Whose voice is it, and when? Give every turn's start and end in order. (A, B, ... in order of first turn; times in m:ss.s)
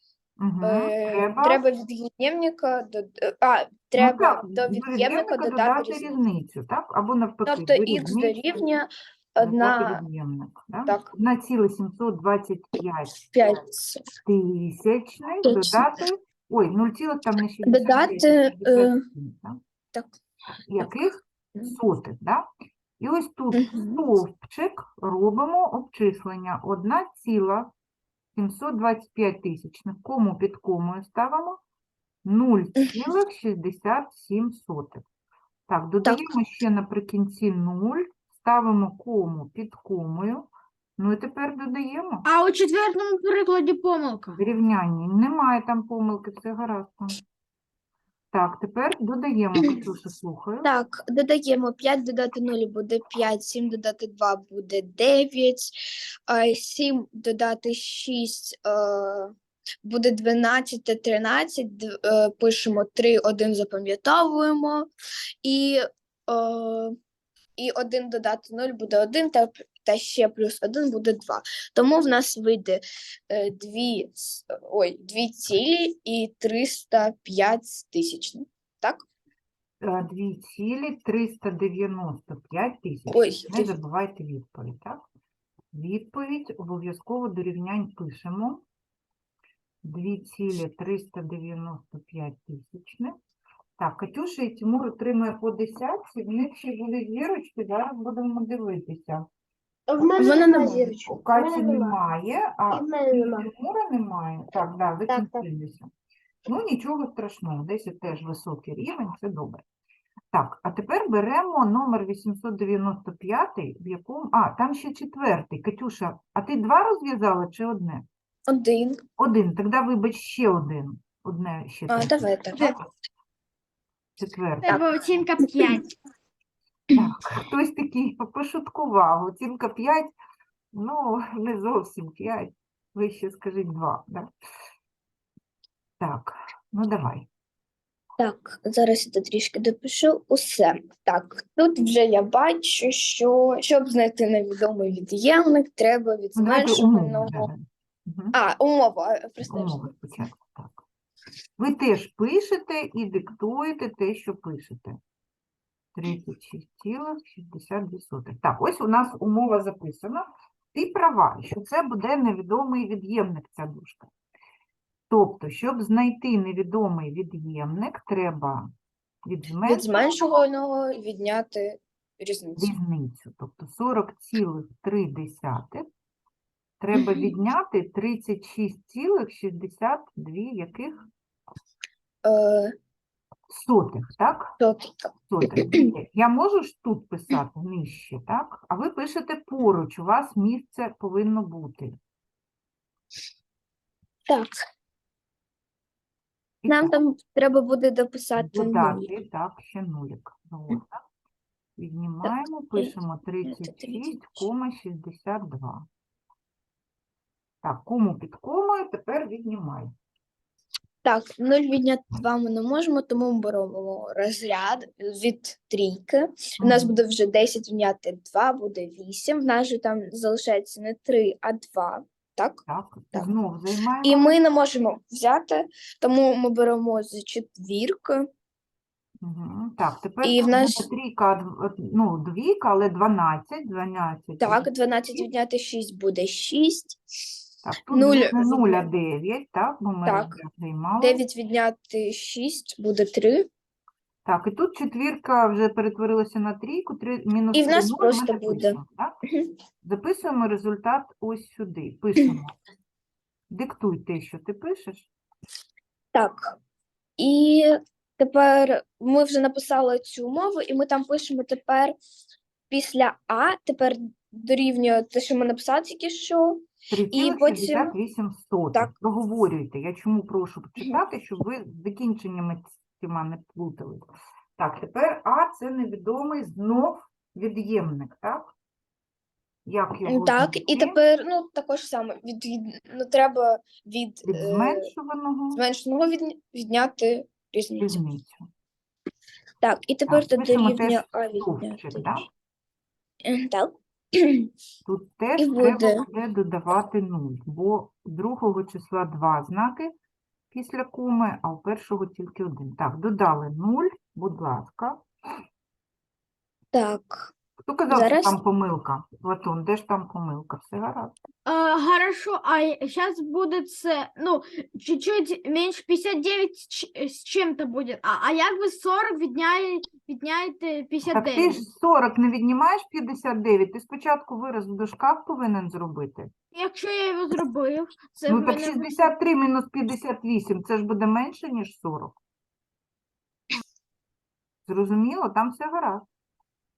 0:00.4-0:01.6 A
0:00.6-0:06.1 B
0:04.0-0:08.4 A
0:07.4-0:10.0 B
0:09.4-0:13.6 A
0:10.8-0:11.1 B
0:13.3-0:14.0 B
0:14.2-0:19.6 A
0:15.4-0:15.9 B
0:17.6-0:19.0 B
0:20.7-0:22.5 A
0:23.0-0:27.7 A
0:23.5-0:24.0 B
0:28.3-0:31.6 A
0:32.2-0:35.0 A
0:35.7-0:42.2 A
0:36.0-0:36.3 B
0:42.2-0:44.4 C
0:44.3-0:47.2 A
0:48.3-0:50.7 A
0:50.6-1:04.9 B
1:05.4-1:07.0 B
1:07.6-1:19.0 B
1:19.8-1:25.0 A
1:23.1-1:23.8 B
1:25.7-1:28.6 A
1:29.8-1:33.1 A
1:33.8-1:39.2 A
1:39.9-1:42.0 D
1:40.2-1:40.9 B
1:41.0-1:45.9 A
1:42.7-1:43.5 D
1:45.1-1:45.4 D
1:46.4-1:49.6 A
1:50.3-1:58.0 A
1:58.5-1:59.0 B
1:59.2-2:02.8 A
2:01.9-2:02.8 B
2:04.2-2:04.8 A
2:04.6-2:05.9 C
2:06.9-2:10.1 A
2:10.7-2:14.3 A
2:16.0-2:17.3 A
2:18.2-2:27.5 B
2:26.4-2:28.4 A
2:28.3-2:29.8 B
2:29.5-2:30.8 A
2:31.6-2:35.0 A
2:35.9-2:44.1 A
2:45.1-2:48.7 A
2:49.2-2:50.1 A
2:49.6-2:52.7 B
2:52.6-2:55.9 A
2:56.8-3:01.1 A
2:56.9-2:57.3 B
3:02.2-3:02.7 B
3:03.5-3:04.5 A
3:04.6-3:05.9 B
3:05.3-3:12.0 A
3:14.3-3:14.6 B
3:16.6-3:16.9 A
3:16.7-3:19.1 B
3:18.4-3:21.0 A
3:21.8-3:25.9 A
3:22.2-3:24.4 B
3:27.6-3:29.9 A
3:31.0-3:43.3 B
3:36.6-3:37.0 A
3:42.7-3:44.4 A
3:44.0-3:48.3 B
3:49.2-3:54.7 A
3:50.2-3:50.9 B
3:54.4-3:57.0 B
3:57.6-4:01.2 A
3:57.9-3:58.9 B
4:00.0-4:00.4 B
4:01.0-4:03.5 B
4:04.2-4:09.1 A
4:07.5-4:09.5 B
4:09.8-4:12.6 A
4:13.5-4:15.1 A
4:16.1-4:16.6 B
4:17.2-4:22.0 B
4:22.7-4:27.9 B
4:26.9-4:34.0 A
4:34.6-4:38.5 A
4:39.6-4:41.0 A
4:40.1-4:44.9 B
4:44.3-4:45.6 A
4:45.5-4:48.0 B
4:47.8-4:48.5 A
4:49.6-4:52.2 B
4:50.1-4:52.3 A
4:53.2-4:54.5 B
4:54.8-4:59.9 A
4:55.4-4:56.0 B
5:00.5-5:05.0 A
5:06.7-5:07.3 B
5:07.6-5:11.2 A
5:07.9-5:08.4 B
5:11.4-5:21.6 C
5:21.1-5:26.3 A
5:26.5-5:29.1 C
5:28.3-5:32.2 A
5:34.6-5:36.0 A